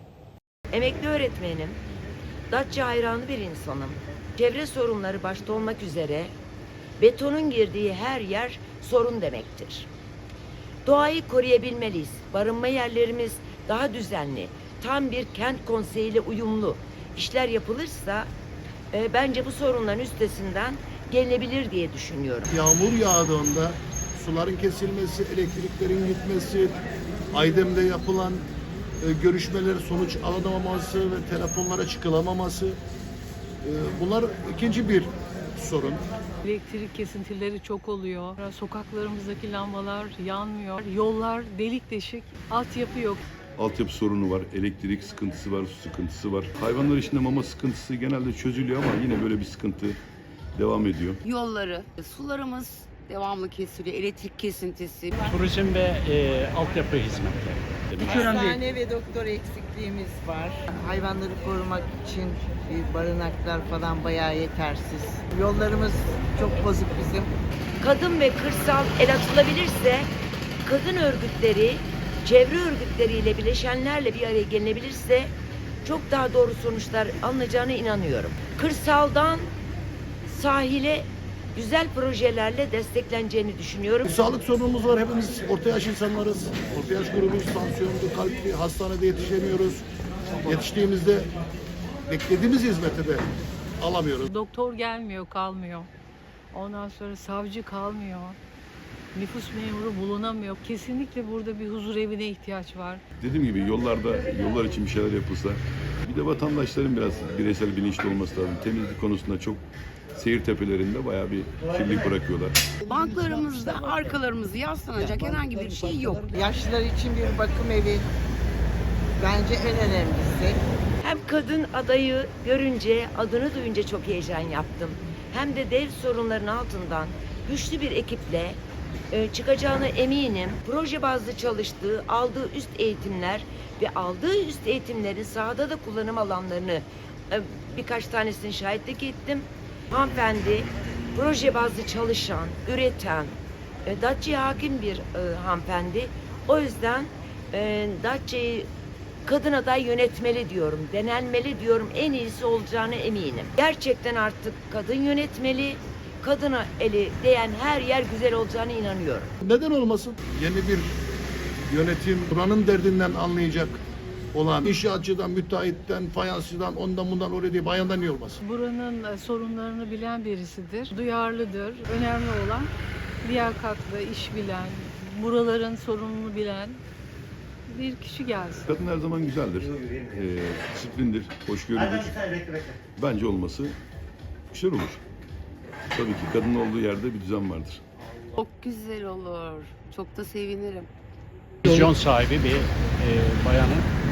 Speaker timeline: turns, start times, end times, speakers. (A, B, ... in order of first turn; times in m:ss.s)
0:00.7-0:01.8 A
0:02.5-0:06.3 A
0:07.0-0:09.9 A
0:10.8-0:18.3 A
0:18.9-0:22.5 A
0:22.5-0:26.8 B
0:27.3-0:28.5 B
0:29.0-0:32.8 B
0:33.6-0:36.0 B
0:36.4-0:43.2 C
0:43.6-0:50.0 D
0:50.5-0:51.2 D
0:51.2-0:55.2 E
0:55.3-0:58.6 F
0:58.0-1:07.3 G
1:07.8-1:10.1 A
1:10.6-1:19.5 A
1:20.2-1:24.0 A
1:24.0-1:29.8 B
1:30.4-1:31.3 B
1:32.1-1:34.3 B
1:34.3-1:35.9 C
1:36.5-1:38.4 C
1:39.1-1:43.0 C
1:43.2-1:49.6 D
1:50.1-1:52.6 D
1:52.8-1:56.3 E
1:56.3-1:58.1 G
1:59.2-2:00.6 G
2:01.0-2:08.6 A
2:09.1-2:28.7 A
2:29.2-2:39.3 A
2:39.4-2:41.0 B
2:41.7-2:43.8 B
2:44.3-2:48.4 B
2:48.4-2:52.7 C
2:53.2-2:56.8 C
2:57.7-2:58.7 C
2:58.7-3:03.8 D
3:04.5-3:05.0 D
3:05.9-3:07.8 D
3:08.4-3:10.9 E
3:11.6-3:13.9 F